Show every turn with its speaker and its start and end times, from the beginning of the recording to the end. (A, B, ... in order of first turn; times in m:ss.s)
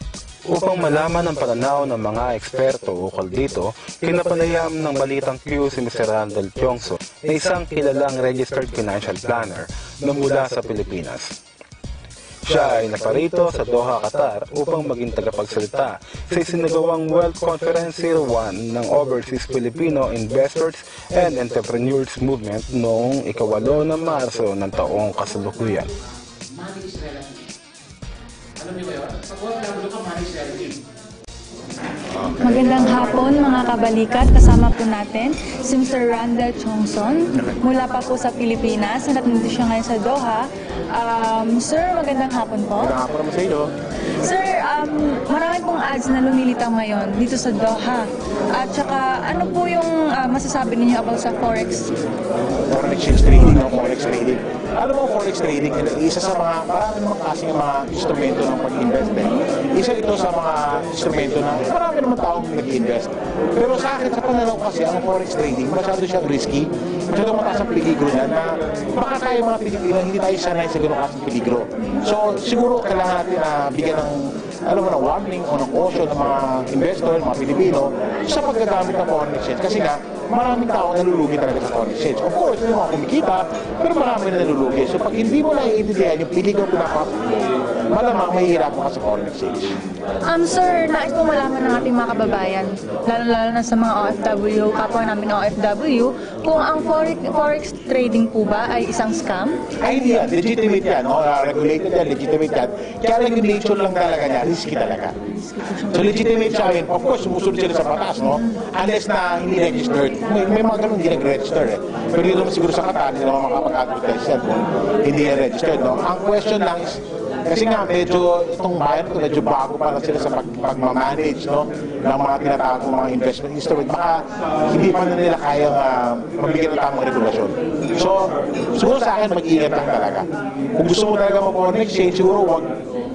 0:00.5-0:11.4 A
0:12.4-0:25.9 A
0:26.5-0:27.4 B
0:28.6-0:30.8 B
0:32.1-0:33.1 B
0:32.4-0:42.9 C
0:42.8-0:43.7 B
0:44.2-0:51.9 C
0:52.7-1:29.8 B
1:30.3-1:39.6 C
1:39.8-1:45.1 B
1:45.4-1:46.0 C
1:45.9-2:12.8 B